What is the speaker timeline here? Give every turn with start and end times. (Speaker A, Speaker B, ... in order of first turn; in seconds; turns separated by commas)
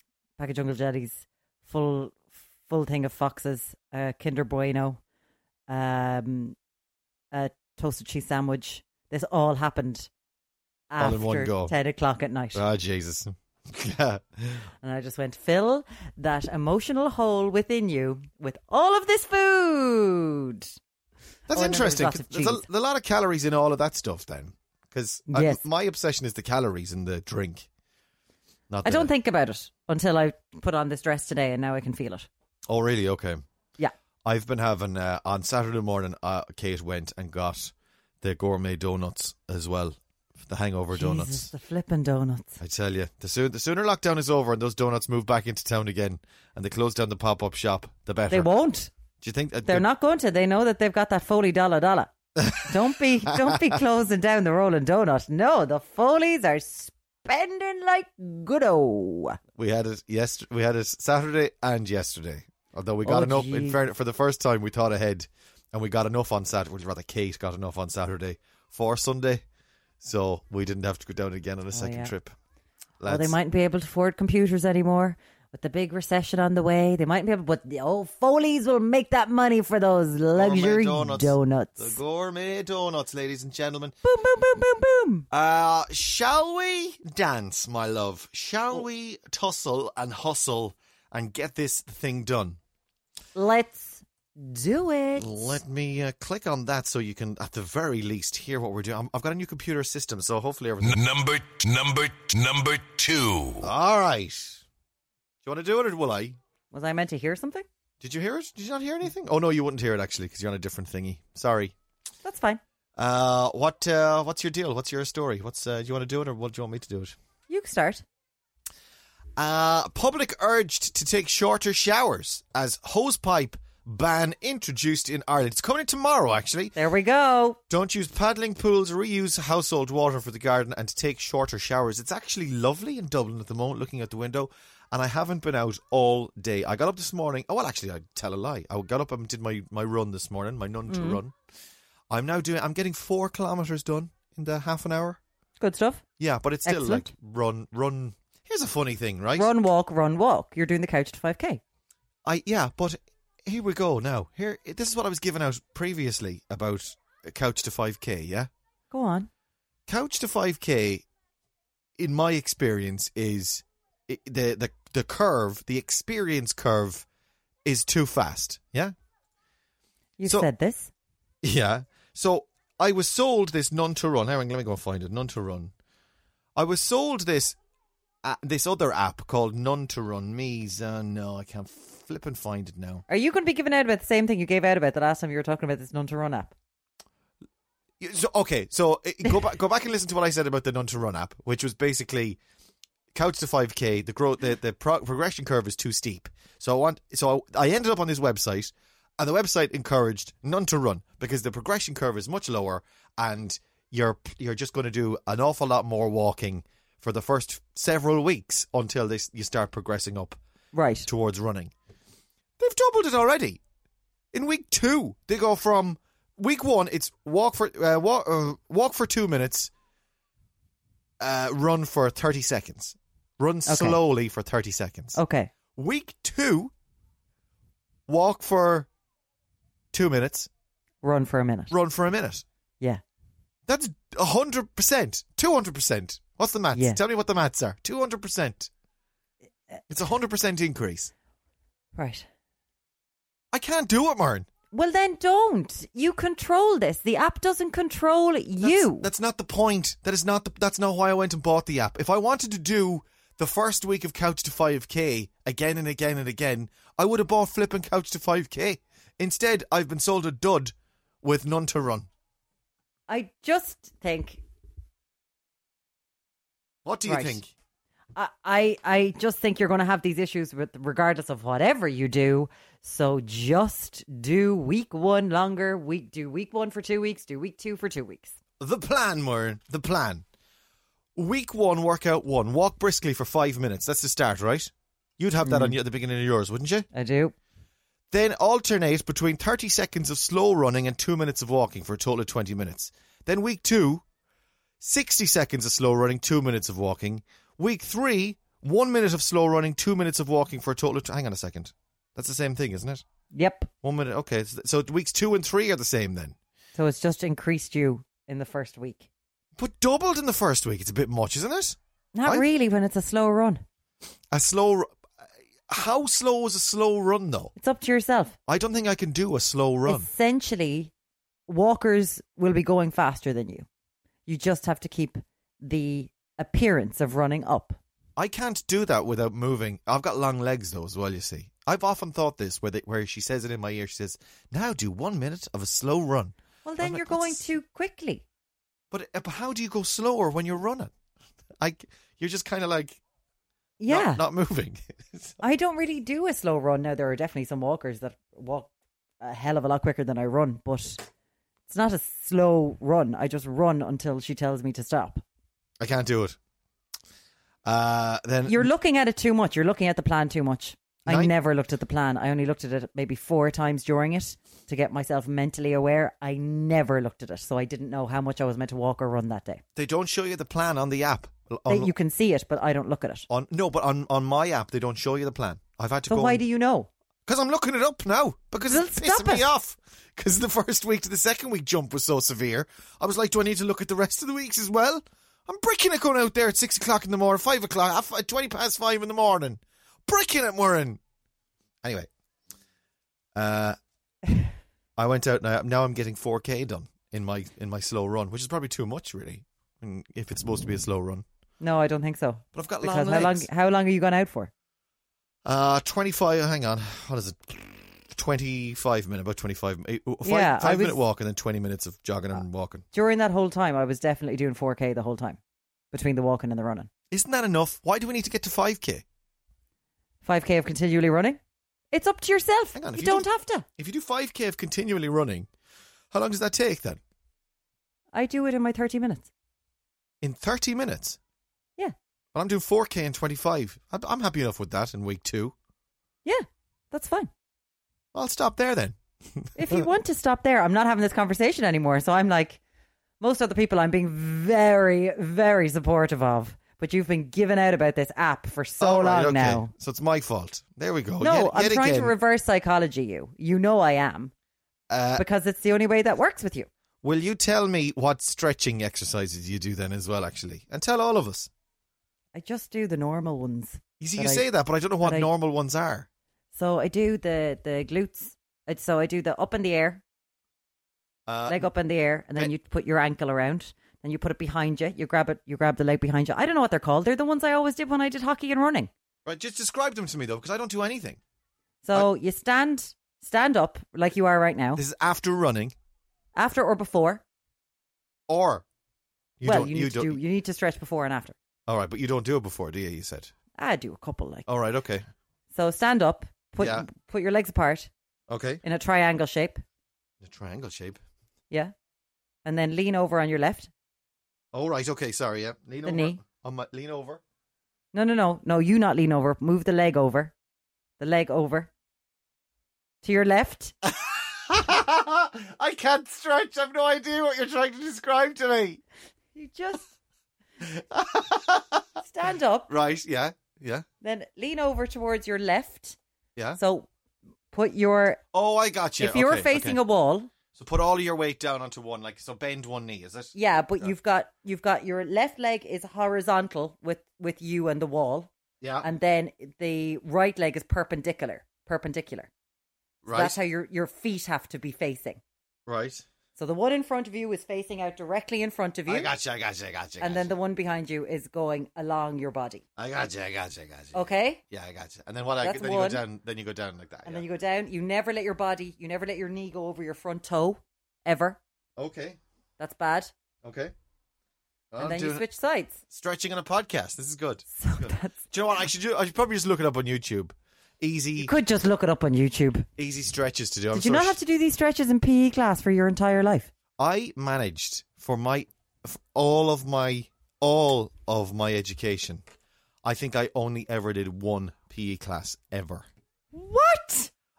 Speaker A: 0.4-5.0, Speaker A: 5.7-6.5, Speaker A: 7.3-10.1, Speaker A: 10.9-12.6, Speaker B: 11.0-11.7, Speaker B: 12.5-14.7, Speaker A: 14.8-20.7, Speaker B: 21.5-27.7, Speaker A: 21.5-22.6, Speaker A: 25.3-25.6, Speaker B: 28.7-29.1, Speaker A: 28.8-32.3, Speaker B: 32.7-33.4, Speaker B: 34.2-41.5, Speaker A: 40.9-42.6, Speaker B: 42.6-48.5, Speaker A: 48.3-48.9, Speaker B: 49.2-49.9, Speaker A: 49.7-59.4, Speaker B: 52.4-53.7, Speaker B: 59.5-69.4, Speaker A: 63.0-63.8, Speaker B: 70.0-72.3, Speaker A: 71.7-72.1, Speaker B: 73.0-73.3, Speaker A: 73.0-82.0, Speaker B: 80.3-84.0, Speaker A: 84.0-85.2, Speaker B: 85.3-92.6, Speaker A: 93.3-95.6, Speaker B: 95.2-101.0, Speaker C: 100.8-103.7, Speaker B: 103.6-104.6, Speaker B: 105.4-106.4, Speaker A: 106.7-107.6, Speaker B: 108.0-111.7, Speaker A: 112.2-112.6, Speaker B: 113.0-117.1, Speaker A: 117.5-118.0, Speaker B: 119.4-126.8, Speaker A: 126.7-127.6, Speaker B: 127.7-141.3, Speaker A: 140.9-141.2, Speaker B: 142.1-145.2, Speaker A: 145.6-146.0, Speaker B: 146.2-149.5, Speaker A: 146.6-147.1, Speaker A: 149.3-151.6, Speaker B: 152.2-158.5, Speaker A: 158.9-159.3, Speaker B: 159.9-161.0, Speaker B: 162.0-167.1, Speaker B: 167.6-168.9, Speaker A: 170.2-170.9, Speaker B: 171.4-175.7, Speaker B: 176.5-177.6, Speaker B: 178.2-183.0, Speaker A: 183.1-186.5, Speaker B: 188.0-192.4, Speaker B: 193.1-210.4, Speaker A: 210.7-211.1, Speaker B: 211.1-211.7, Speaker B: 212.6-213.6, Speaker B: 214.3-219.7, Speaker B: 221.2-225.2, Speaker A: 223.7-224.0, Speaker A: 225.1-225.5, Speaker B: 225.8-226.7, Speaker B: 228.1-228.9, Speaker B: 229.9-230.5, Speaker A: 231.0-231.7, Speaker B: 231.7-232.4, Speaker B: 233.7-238.7, Speaker A: 236.7-237.0, Speaker B: 239.9-241.1, Speaker A: 241.9-242.3, Speaker B: 243.5-244.5, Speaker A: 244.7-249.1, Speaker B: 248.6-262.1, Speaker A: 263.1-264.4, Speaker B: 266.8-267.5, Speaker A: 267.1-267.4, Speaker A: 268.1-278.3, Speaker B: 278.6-280.2, Speaker B: 281.1-286.9, Speaker A: 285.4-285.8, Speaker A: 286.9-287.3, Speaker B: 288.1-294.0, Speaker B: 294.8-303.0, Speaker A: 303.3-303.7, Speaker B: 303.8-306.4, Speaker A: 306.8-309.1, Speaker B: 309.6-312.4, Speaker A: 312.1-313.6, Speaker B: 314.3-314.9, Speaker B: 315.7-317.5, Speaker A: 317.6-318.4, Speaker B: 318.5-320.1, Speaker A: 319.9-320.9, Speaker A: 321.5-323.6, Speaker A: 324.2-327.8, Speaker B: 328.2-337.5, Speaker A: 336.6-338.2, Speaker B: 338.9-340.9, Speaker B: 341.6-343.0, Speaker A: 343.8-344.2, Speaker B: 343.9-345.4, Speaker A: 345.4-348.7, Speaker A: 349.2-351.0, Speaker A: 351.7-355.2, Speaker B: 355.8-356.4, Speaker B: 357.6-358.7, Speaker A: 358.4-369.6, Speaker B: 361.1-361.3, Speaker B: 369.8-371.9, Speaker A: 371.7-373.3, Speaker B: 373.3-376.4, Speaker A: 376.1-376.9, Speaker B: 377.2-391.0, Speaker A: 378.7-379.4, Speaker B: 391.8-392.1, Speaker B: 393.3-393.8, Speaker B: 395.0-401.2, Speaker A: 401.6-404.5, Speaker B: 402.5-403.5, Speaker B: 405.4-412.8, Speaker A: 410.2-411.0, Speaker A: 412.9-415.4, Speaker A: 415.9-416.9, Speaker B: 417.1-419.0, Speaker A: 420.2-421.4, Speaker A: 421.9-423.6, Speaker B: 422.7-425.5, Speaker B: 426.1-427.0, Speaker A: 428.1-429.3, Speaker B: 430.2-431.2, Speaker B: 432.3-435.5, Speaker A: 436.2-437.3, Speaker B: 438.1-439.9, Speaker A: 439.6-442.6, Speaker A: 443.2-449.7, Speaker B: 448.8-452.1, Speaker A: 451.2-454.3, Speaker B: 454.9-455.2, Speaker A: 455.2-456.7, Speaker B: 457.0-461.5, Speaker A: 462.3-464.4, Speaker B: 464.0-466.1, Speaker A: 465.0-465.3, Speaker A: 466.5-470.0, Speaker B: 471.3-471.7, Speaker A: 471.5-478.9, Speaker B: 479.2-481.2, Speaker A: 481.8-484.8, Speaker B: 484.8-485.7, Speaker A: 486.4-487.2, Speaker B: 488.3-488.6, Speaker B: 489.4-490.2, Speaker A: 489.4-491.4, Speaker B: 491.7-493.3, Speaker A: 493.6-494.5, Speaker B: 494.5-495.0, Speaker A: 495.5-497.9, Speaker B: 496.6-496.9, Speaker B: 498.3-498.6, Speaker A: 498.6-499.6, Speaker B: 500.2-501.0, Speaker A: 502.4-503.7, Speaker B: 504.5-507.2, Speaker A: 505.8-506.2, Speaker A: 507.9-510.3, Speaker A: 511.0-511.7, Speaker A: 513.0-513.7, Speaker B: 513.8-518.8, Speaker A: 519.3-519.9, Speaker B: 520.6-521.9, Speaker A: 522.0-522.7, Speaker B: 522.7-523.9, Speaker A: 524.0-526.0, Speaker A: 526.6-526.9, Speaker A: 527.5-528.2, Speaker B: 528.3-529.8, Speaker A: 529.0-530.3, Speaker B: 530.5-533.9, Speaker A: 533.3-538.3, Speaker B: 538.6-538.9, Speaker A: 538.8-542.3, Speaker B: 543.0-543.4, Speaker A: 543.1-545.2, Speaker B: 545.6-546.0, Speaker A: 546.4-549.1, Speaker B: 548.9-550.3, Speaker A: 550.0-552.6, Speaker B: 552.8-557.2, Speaker A: 553.9-554.4, Speaker A: 555.4-556.0, Speaker A: 557.0-561.4, Speaker B: 561.8-562.2, Speaker A: 562.6-563.1, Speaker B: 563.4-563.7, Speaker B: 564.7-565.2, Speaker A: 564.8-565.8, Speaker B: 565.9-571.3, Speaker A: 567.6-568.2, Speaker A: 571.2-572.7, Speaker B: 572.8-574.2, Speaker A: 573.7-576.5, Speaker B: 576.8-582.2, Speaker B: 582.8-585.9, Speaker A: 586.3-587.1